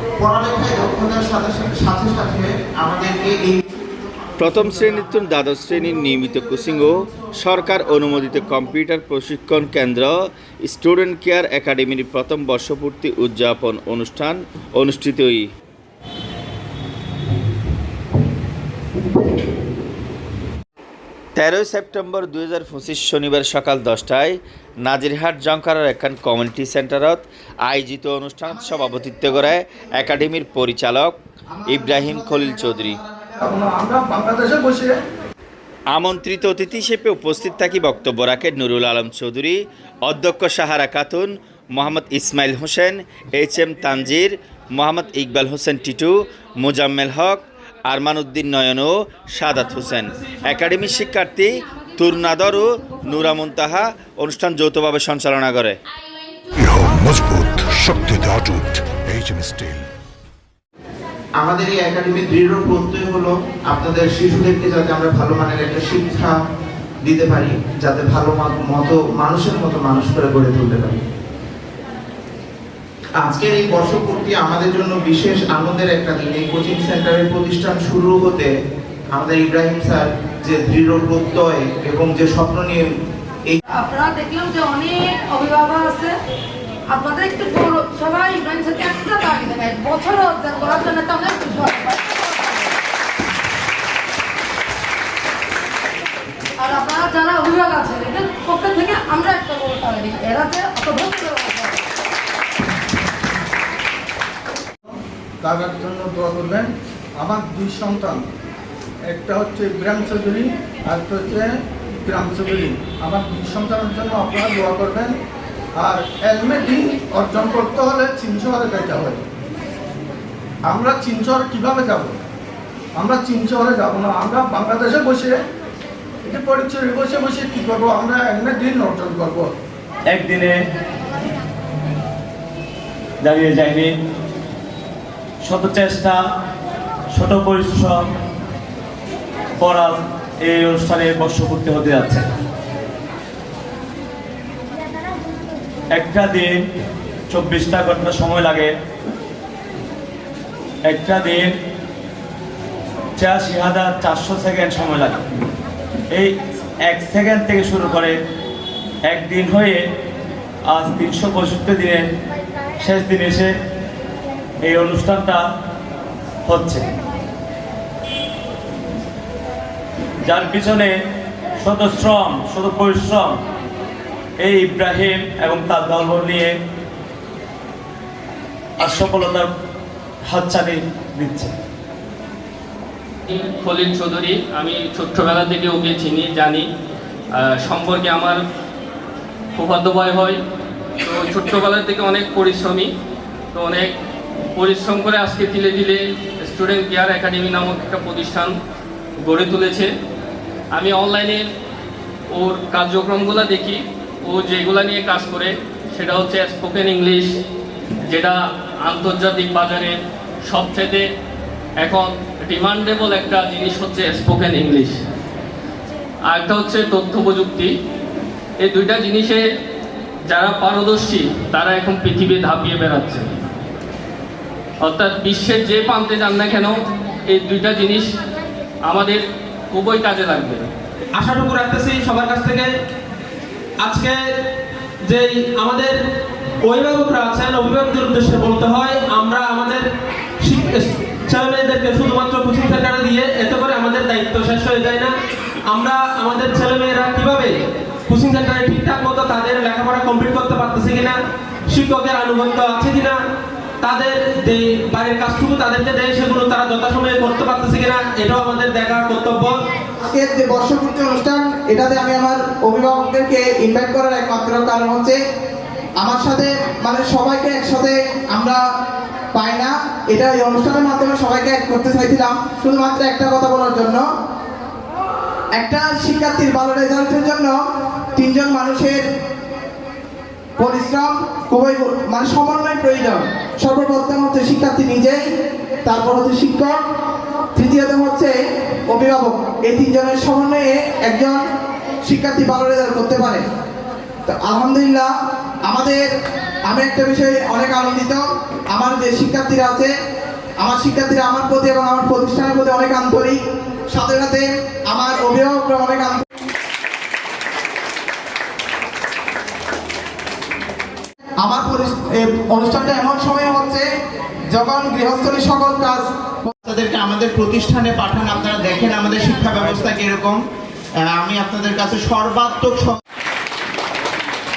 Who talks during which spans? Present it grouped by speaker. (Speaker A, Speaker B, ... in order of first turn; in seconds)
Speaker A: 0.2-3.8, 6.4-7.8, 61.4-66.3, 67.0-71.0, 73.2-78.5, 79.1-82.9, 316.6-320.4, 321.0-322.9
Speaker B: 4.4-15.5, 21.4-33.0, 35.9-55.8
Speaker C: 33.4-34.9, 105.4-108.2, 109.1-111.5, 112.0-115.1, 115.8-119.2, 120.7-122.1, 123.0-125.3, 126.2-129.5
Speaker D: 49.6-50.9, 231.1-232.7, 233.8-234.2, 235.0-236.0, 236.6-239.9, 240.4-245.1, 245.7-247.5, 248.1-253.2, 253.8-259.6
Speaker E: 56.5-59.9
Speaker F: 83.7-86.1, 86.9-92.8, 96.6-101.8
Speaker G: 130.1-130.5, 133.2-133.9, 135.4-136.2, 137.1-138.0, 139.6-142.2, 145.9-146.5, 147.3-148.7, 150.9-151.5, 153.2-155.2, 156.9-158.2, 159.1-159.8, 160.7-162.1, 162.8-163.5, 164.6-165.4, 166.5-166.8, 170.2-170.9, 171.6-173.3, 174.4-176.5, 178.8-179.5, 180.3-181.5
Speaker H: 183.3-186.7, 187.4-188.4, 189.6-190.4, 191.0-192.9, 193.5-193.9, 194.6-198.5, 199.2-199.9, 200.7-201.4, 202.3-207.4, 208.1-210.0, 210.5-211.1, 211.8-215.0, 216.3-217.7, 218.6-219.4, 220.3-223.4, 224.8-226.8, 227.3-228.1, 228.9-229.2, 229.7-230.7
Speaker I: 260.0-265.2, 266.0-268.6, 269.3-274.0, 275.6-277.6, 278.1-279.0, 280.6-285.2, 285.8-286.8, 287.5-288.3, 288.9-291.4, 292.1-293.4, 294.3-295.1, 295.7-296.1, 296.7-298.2, 298.7-299.9, 300.6-303.4, 303.9-306.2, 311.4-313.8, 314.5-316.1